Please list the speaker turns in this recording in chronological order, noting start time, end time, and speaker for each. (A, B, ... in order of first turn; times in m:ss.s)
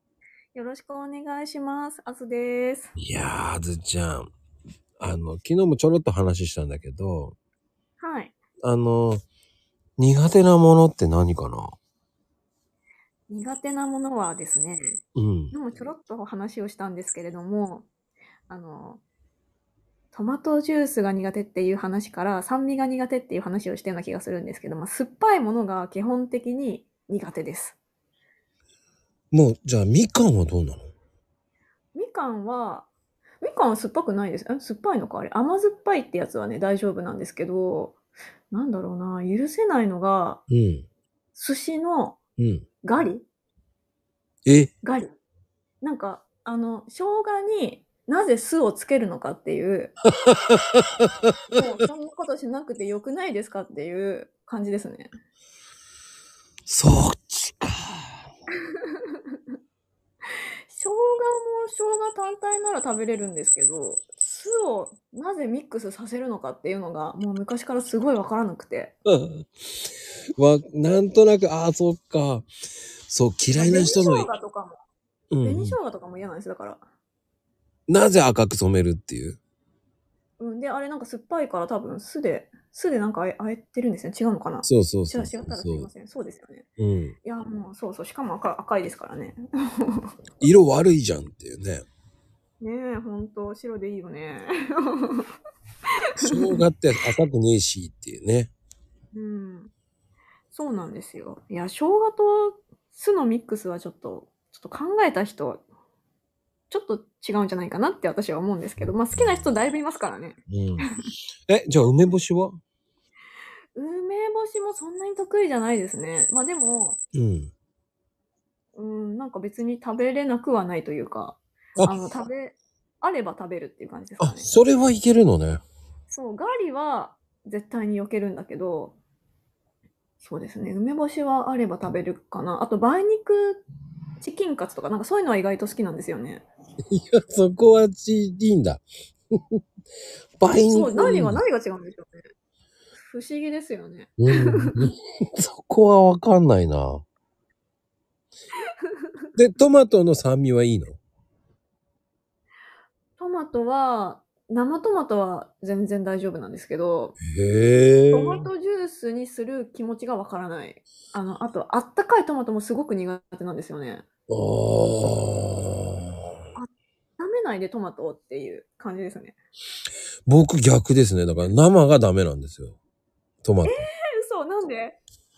0:00.5-0:02.9 A
0:03.0-0:04.3 B
0:05.0-0:07.4 B
0:08.0-0:08.4 A
0:08.6-0:09.2 B
0:10.0-0:11.7 B
0:13.3-0:15.0 A
0:15.2-0:15.6 B
0:15.5-0:17.9 A
0:18.5-0:19.0 A
0:20.1-0:27.8 A
0:29.3-0:30.8 B
0:32.0-0:32.9 A
0:33.4-0:38.0 A
0:38.5-0:40.4 A
0:40.5-0:40.9 B
0:41.4-0:42.2 A
0:42.4-0:42.6 B
0:42.8-0:43.3 A
0:44.5-0:44.7 B
0:44.8-0:45.2 A
0:45.8-0:49.9 A
0:50.1-0:51.6 B
0:51.5-0:55.1 A
0:56.7-0:58.2 B
0:58.7-0:59.4 A
1:00.7-1:09.0 A
1:09.0-1:09.5 B
1:10.4-1:12.5 B
1:13.1-1:14.3 B
1:13.6-1:14.8 A
1:15.3-1:15.8 B
1:15.4-1:16.8 A
1:17.9-1:19.4 B
1:20.4-1:26.7 A
1:24.6-1:25.9 B
1:26.8-1:27.2 B
1:27.2-1:30.1 A
1:30.4-1:31.9 B
1:32.6-1:35.3 A
1:36.2-1:36.6 A
1:36.2-1:38.5 B
1:39.1-1:39.7 A
1:40.5-1:45.6 A
1:46.7-1:51.1 A
1:50.5-1:50.9 B
1:51.5-1:52.6 B
1:53.8-1:57.0 A
1:57.1-1:57.5 B
1:58.8-2:04.5 A
2:04.2-2:05.6 B
2:06.1-2:09.0 A
2:10.2-2:13.6 A
2:14.2-2:16.5 A
2:16.9-2:19.6 B
2:20.4-2:21.4 B
2:20.6-2:22.3 A
2:23.0-2:24.9 A
2:24.2-2:27.0 B
2:28.8-2:29.3 A
2:29.4-2:31.0 B
2:33.2-2:37.2 A
2:37.2-2:38.5 B
2:38.1-2:44.1 A
2:44.3-2:46.2 B
2:46.6-2:49.4 A
2:50.3-2:52.8 B
2:53.4-2:53.9 B
2:53.7-2:55.0 A